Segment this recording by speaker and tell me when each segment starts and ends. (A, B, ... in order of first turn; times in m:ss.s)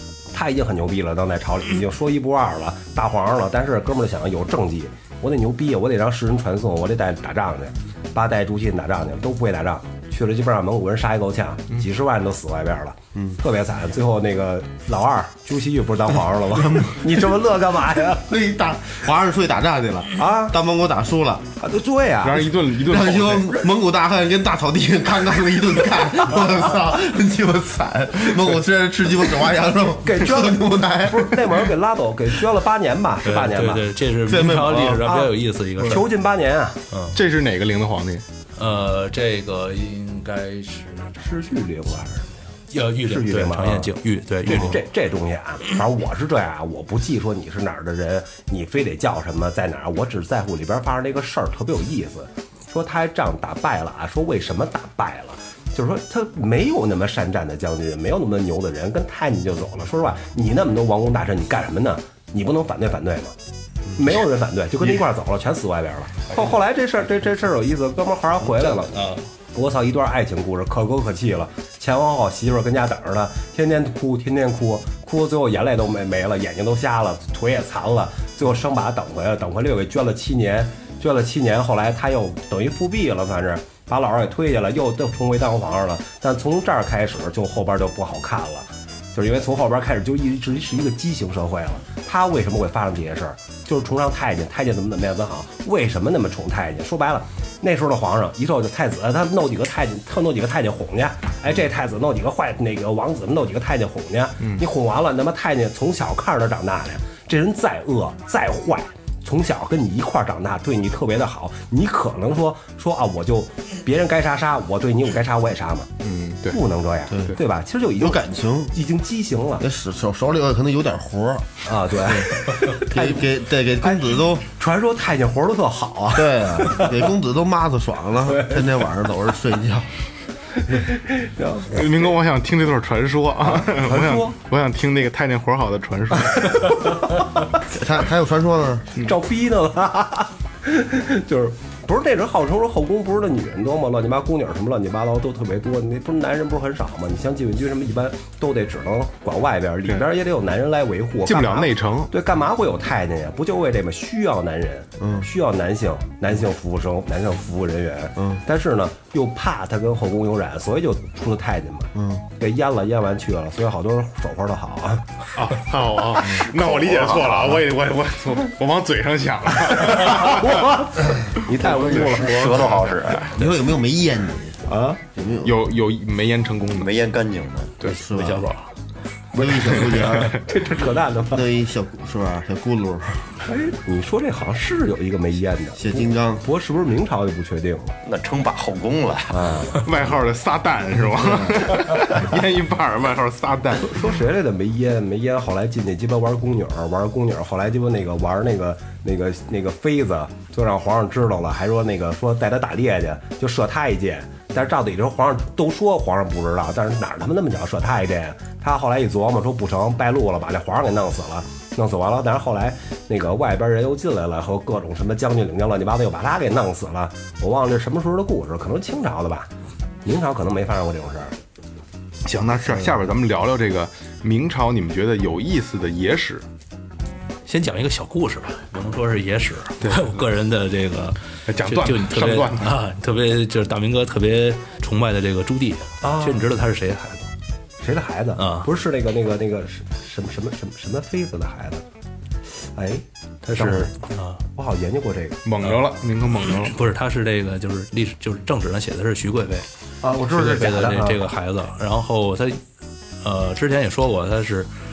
0:00.3-0:18.4 A
0:16.6-0:17.1 B
0:18.2-0:21.5 B
0:20.2-0:20.6 A
0:21.6-0:22.6 A
0:22.2-0:23.6 C
0:22.8-0:31.5 B
0:30.0-0:33.9 A
0:33.2-0:36.1 D
0:34.3-0:35.0 B
0:35.0-0:36.8 A
0:36.9-0:37.2 D
0:37.1-0:38.2 C
0:38.6-0:41.2 D
0:41.2-0:42.4 A
0:42.7-0:44.8 D
0:43.0-1:03.4 A
1:03.9-1:09.0 A
1:08.7-1:09.2 D
1:09.5-1:55.9 A
1:56.0-1:56.6 C
1:56.5-1:59.7 A
1:57.1-1:57.4 B
1:58.0-1:58.7 B
1:59.6-2:04.5 B
2:01.6-2:03.3 A
2:03.8-2:07.1 A
2:06.2-2:09.9 B
2:08.3-2:08.7 A
2:10.6-2:11.9 A
2:11.7-2:16.8 C
2:13.4-2:14.4 A
2:16.4-2:17.4 A
2:17.6-2:18.9 B
2:19.0-2:45.3 A
2:31.3-2:32.1 C
2:35.0-2:35.3 B
2:42.0-2:42.2 B
2:45.4-2:50.8 C
2:46.5-2:47.4 A
2:49.8-2:52.6 A
2:51.5-2:53.3 C
2:52.1-2:53.3 E
2:53.3-2:54.6 B
2:54.7-2:55.0 A
2:55.2-2:55.6 B
2:55.4-2:56.9 C
2:56.8-2:57.8 E
2:57.8-2:58.7 D
2:57.8-2:58.5 B
2:59.3-3:00.4 B
2:59.9-3:00.4 C
3:00.3-3:01.5 A
3:01.3-3:03.3 B
3:03.4-3:08.0 A
3:05.8-3:06.4 B
3:08.0-3:09.5 E
3:09.3-3:09.8 A
3:09.8-3:14.0 C
3:13.8-3:39.5 A
3:40.0-3:41.4 A
3:42.2-3:46.5 C
3:42.7-3:42.9 A
3:47.5-3:57.3 D
3:49.8-3:50.2 C
3:51.5-3:52.8 C
3:56.0-3:56.5 A
3:57.8-4:01.8 A
3:58.4-3:58.7 D
4:02.6-4:04.0 A
4:03.4-4:04.4 D
4:04.5-4:05.4 A
4:05.4-4:06.8 C
4:06.4-4:09.7 D
4:10.0-4:11.3 A
4:10.3-4:12.6 D
4:13.2-4:14.7 D